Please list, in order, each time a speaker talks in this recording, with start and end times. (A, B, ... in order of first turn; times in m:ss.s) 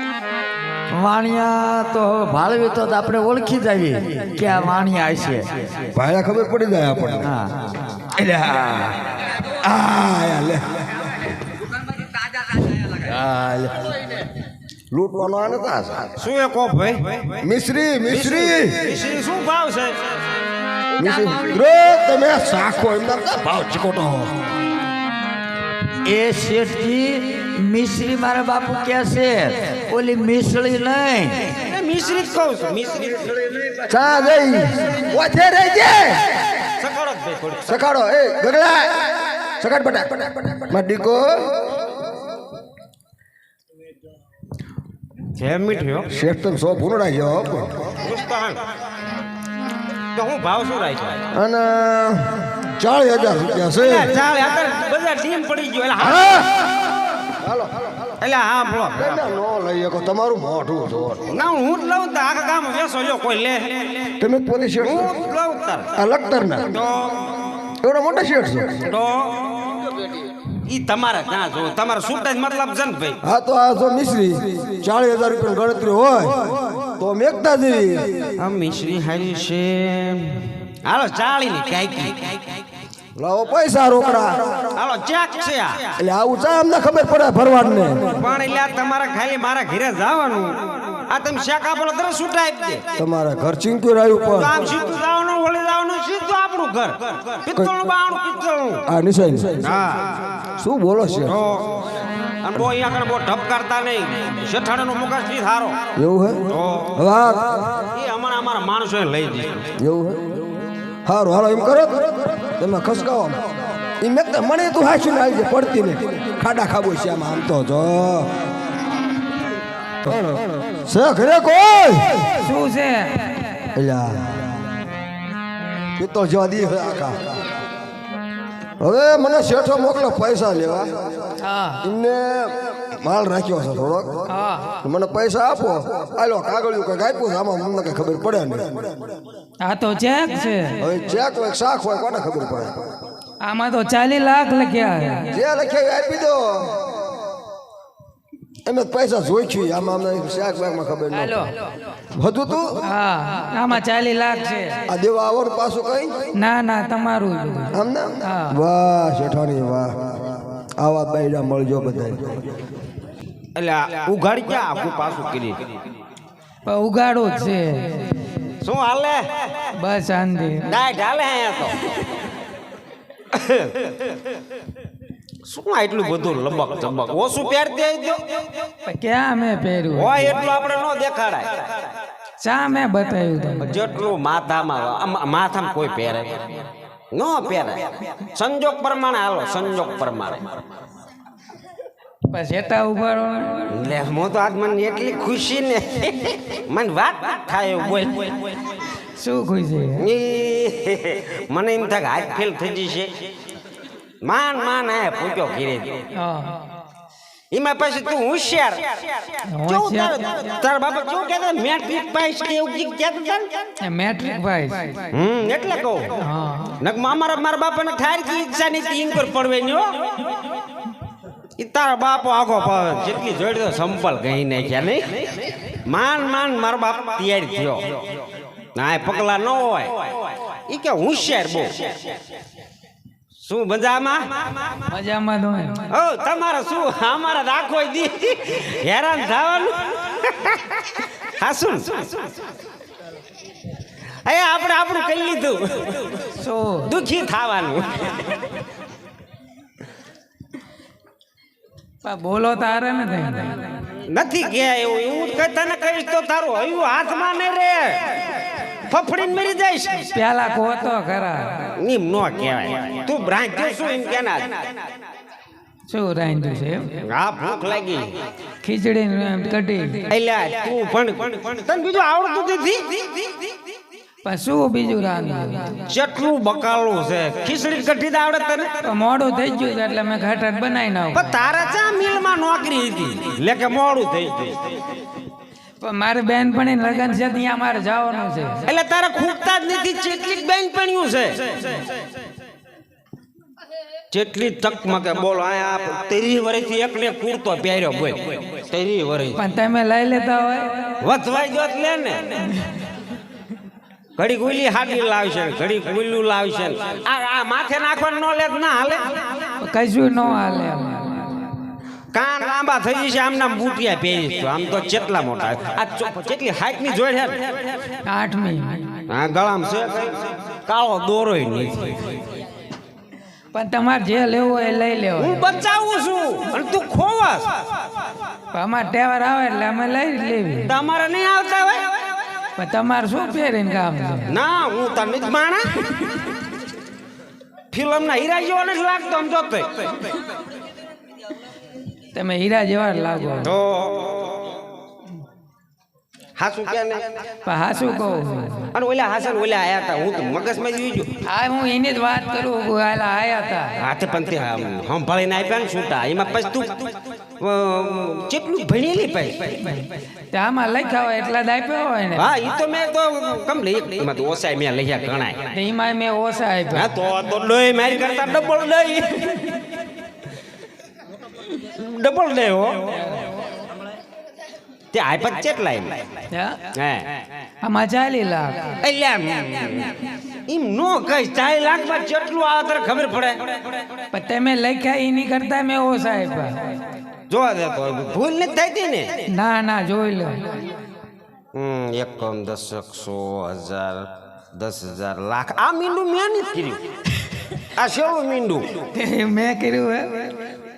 0:00.9-0:05.8 A
0:05.9-0:07.3 B
0:07.2-0:07.7 A
0:08.2-0:09.0 B
0:09.6-0:10.6 B
0:12.9-0:13.9 B
0:14.9-0:16.2 B
0:16.2-0:17.5 C
0:17.4-0:19.0 B
0:18.1-0:20.3 C
0:21.0-0:24.3 B
0:26.0-0:31.5 A
0:31.7-0:33.5 C
0:33.8-0:36.4 B
0:36.8-0:37.8 C
0:37.7-0:41.5 B
0:45.4-0:46.1 C
0:46.1-0:47.9 B
0:48.0-0:48.6 C
0:50.2-0:51.2 C
0:51.3-0:54.2 B
0:53.8-0:56.5 C
0:56.0-0:56.5 B
0:57.4-0:57.7 B
0:58.2-0:59.3 C
0:59.0-1:01.4 B
1:01.3-1:04.1 C
1:04.2-1:05.1 B
1:04.8-1:05.9 C
1:06.0-1:06.8 B
1:06.7-1:07.3 C
1:07.8-1:08.9 B
1:08.8-1:10.0 C
1:10.7-1:13.2 C
1:13.2-1:18.3 B
1:18.4-1:22.3 C
1:23.2-1:24.7 B
1:24.8-1:25.9 C
1:26.0-1:28.2 B
1:28.2-1:32.8 C
1:33.0-1:34.6 B
1:34.3-1:38.8 C
1:37.6-1:37.8 B
1:38.9-1:39.7 B
1:39.6-1:40.3 C
1:40.6-1:41.4 B
1:41.3-1:41.8 C
1:42.4-1:45.9 C
1:46.0-1:47.9 B
1:46.5-1:47.0 C
1:47.9-1:49.7 C
1:49.8-1:50.4 B
1:51.0-1:53.4 B
1:54.0-1:58.3 B
2:00.0-2:02.3 B
2:02.4-2:03.5 D
2:03.8-2:04.5 B
2:06.0-2:07.2 B
2:08.8-2:10.9 B
2:11.4-2:11.8 D
2:11.8-2:14.2 B
2:14.3-2:14.8 D
2:14.8-2:18.9 B
2:19.6-2:20.8 D
2:20.8-2:22.8 B
2:23.4-2:25.4 D
2:25.3-2:26.8 B
2:28.7-2:31.4 B
2:31.1-2:31.5 D
2:32.2-2:32.8 B
2:32.8-2:34.8 D
2:34.9-2:36.1 B
2:36.4-2:38.6 D
2:37.7-2:42.5 B
2:43.6-2:45.6 C
2:46.6-2:48.2 D
2:48.6-2:49.7 C
2:49.8-2:50.7 D
2:50.7-2:51.8 C
2:53.3-2:54.0 C
2:55.4-2:58.2 C
2:58.9-3:00.4 D
3:00.0-3:01.7 C
3:02.4-3:03.7 D
3:03.6-3:06.4 C
3:07.1-3:10.4 C
3:12.3-3:13.7 D
3:13.7-3:18.6 C
3:19.2-3:20.0 D
3:20.0-3:23.1 C
3:24.2-3:26.1 C
3:26.1-3:26.7 D
3:27.5-3:33.5 C
3:29.5-3:30.2 D
3:33.8-3:35.1 D
3:35.1-3:36.1 C
3:36.2-3:36.8 D
3:36.8-3:40.2 C
3:41.6-3:48.1 C
3:48.8-3:52.0 C
3:53.4-3:54.8 C
3:54.9-3:55.8 D
3:55.9-4:02.2 C
4:04.2-4:06.3 C
4:06.3-4:06.9 D
4:06.9-4:08.4 C
4:12.0-4:13.7 D
4:14.1-4:20.1 C
4:20.1-4:21.7 D
4:21.8-4:24.7 C
4:25.9-4:27.0 D
4:27.0-4:28.1 C
4:28.6-4:30.1 D
4:30.1-4:33.3 C
4:34.2-4:35.8 D
4:35.9-4:38.7 C
4:38.8-4:41.3 D
4:41.1-4:44.6 C
4:45.8-4:48.6 D
4:48.7-4:51.8 C
4:54.1-4:59.4 C
4:59.4-5:01.0 D
5:01.0-5:02.4 C
5:04.2-5:09.5 C
5:09.6-5:11.6 D
5:12.1-5:17.5 C
5:18.0-5:19.0 D
5:19.1-5:22.2 C
5:23.5-5:25.5 D
5:25.2-5:27.5 C
5:28.5-5:30.7 D
5:30.7-5:32.0 C
5:32.6-5:34.3 D
5:34.3-5:35.8 C
5:37.7-5:40.1 C
5:42.1-5:43.5 D
5:43.4-5:44.6 C
5:46.4-5:47.1 C
5:47.4-5:48.7 D
5:48.7-5:51.1 C
5:51.2-5:53.8 D
5:53.8-5:59.6 C
5:59.7-6:02.3 D
6:02.2-6:05.5 C
6:05.5-6:06.9 D
6:06.7-6:09.6 C
6:11.6-6:13.1 C
6:14.9-6:16.0 C
6:16.3-6:16.6 D
6:16.7-6:17.2 C
6:17.6-6:18.8 D
6:18.8-6:23.6 C
6:24.1-6:26.7 D
6:27.3-6:29.1 C
6:29.3-6:30.7 D
6:31.5-6:36.8 C
6:37.8-6:38.9 C
6:38.9-6:40.6 D